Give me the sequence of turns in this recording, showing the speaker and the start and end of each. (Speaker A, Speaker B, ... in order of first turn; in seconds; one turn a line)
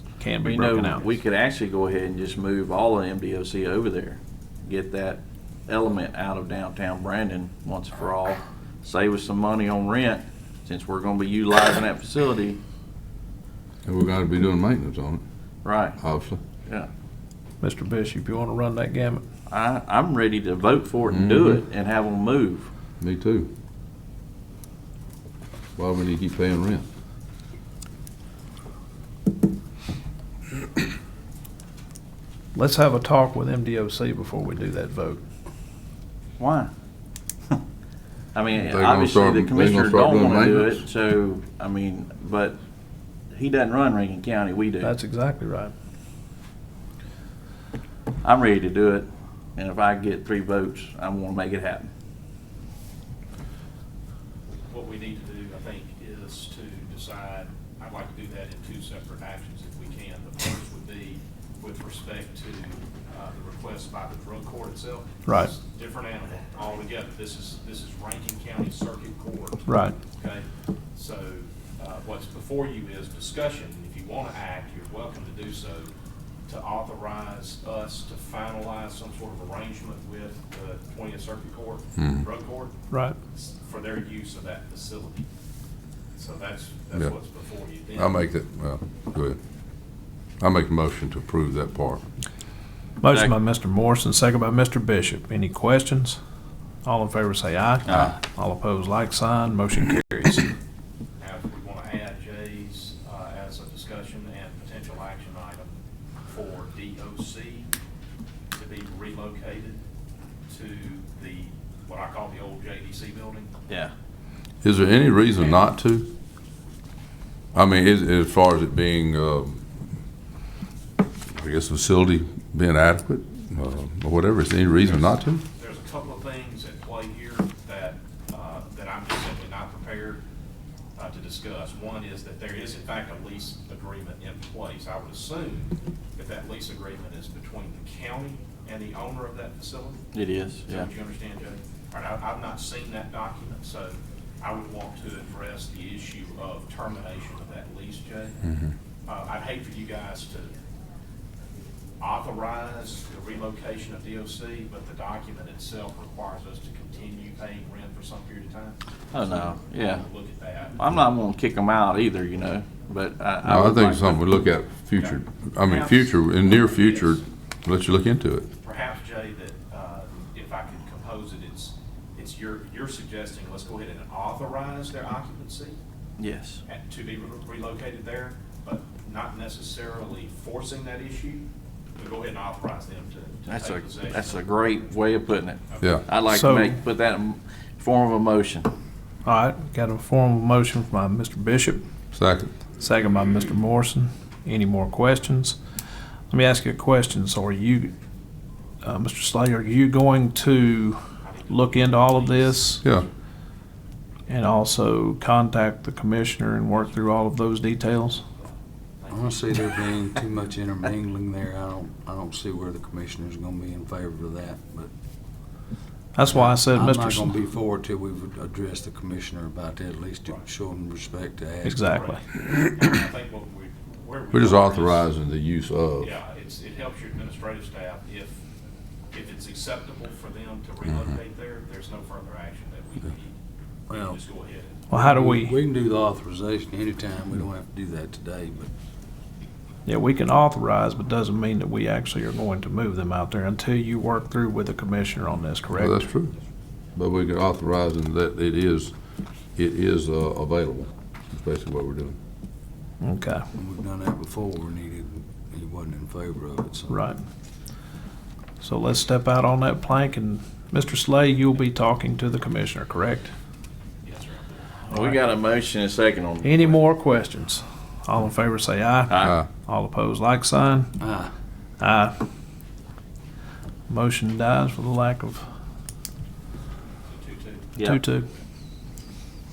Speaker A: 0.2-1.1
Speaker B: 0.4-12.6
Speaker C: 13.8-15.2
Speaker B: 15.7-16.0
Speaker C: 16.0-16.4
Speaker A: 17.6-19.2
Speaker B: 19.5-22.7
Speaker C: 21.1-21.6
Speaker C: 23.0-23.5
Speaker C: 25.8-26.9
Speaker A: 32.5-35.2
Speaker B: 36.4-36.7
Speaker B: 38.3-42.6
Speaker C: 38.6-40.8
Speaker B: 43.3-44.9
Speaker A: 44.8-45.7
Speaker B: 48.2-51.9
Speaker D: 54.7-75.9
Speaker A: 65.3-65.5
Speaker A: 69.7-70.0
Speaker D: 76.5-82.8
Speaker C: 82.0-82.2
Speaker A: 82.9-83.2
Speaker D: 83.3-85.3
Speaker D: 86.1-88.3
Speaker C: 87.9-89.4
Speaker C: 90.4-92.0
Speaker A: 93.0-96.2
Speaker B: 93.1-93.3
Speaker A: 96.8-100.5
Speaker B: 97.8-98.2
Speaker D: 101.2-105.7
Speaker D: 106.2-107.7
Speaker D: 108.5-109.8
Speaker D: 110.5-113.5
Speaker B: 113.7-113.9
Speaker C: 114.6-116.2
Speaker C: 117.5-119.7
Speaker C: 121.3-125.4
Speaker D: 125.5-130.2
Speaker D: 131.0-140.1
Speaker B: 140.1-140.9
Speaker D: 140.6-148.4
Speaker C: 148.4-148.7
Speaker D: 149.1-150.5
Speaker D: 152.0-160.9
Speaker B: 159.1-160.1
Speaker B: 160.8-164.3
Speaker C: 163.4-168.5
Speaker D: 165.0-167.3
Speaker D: 168.6-175.8
Speaker B: 176.2-176.6
Speaker D: 176.7-184.9
Speaker B: 183.5-188.7
Speaker D: 185.7-186.0
Speaker C: 185.8-186.2
Speaker A: 186.2-186.8
Speaker A: 189.2-191.8
Speaker C: 192.1-192.5
Speaker A: 192.7-195.6
Speaker A: 196.3-197.9
Speaker A: 198.8-202.8
Speaker D: 201.2-203.1
Speaker A: 204.3-208.2
Speaker D: 208.3-209.5
Speaker E: 209.1-214.9
Speaker A: 216.2-217.3
Speaker E: 216.2-221.9
Speaker A: 221.6-222.2
Speaker D: 221.9-225.1
Speaker C: 224.3-226.1
Speaker D: 226.0-228.4
Speaker D: 229.1-233.4
Speaker E: 233.9-234.2
Speaker D: 233.9-234.8
Speaker A: 234.9-235.5
Speaker E: 234.9-238.7
Speaker A: 239.9-246.1
Speaker C: 245.7-246.4
Speaker C: 247.0-248.9
Speaker C: 249.6-252.2
Speaker A: 253.0-253.4
Speaker E: 253.6-257.1
Speaker A: 256.9-257.2
Speaker A: 258.6-263.3
Speaker D: 264.1-264.9
Speaker B: 264.9-266.8
Speaker A: 264.9-265.2
Speaker A: 266.4-270.9
Speaker B: 269.1-269.4
Speaker E: 271.0-271.3
Speaker A: 271.8-272.2
Speaker A: 273.9-275.5
Speaker D: 277.1-278.4
Speaker A: 277.8-278.3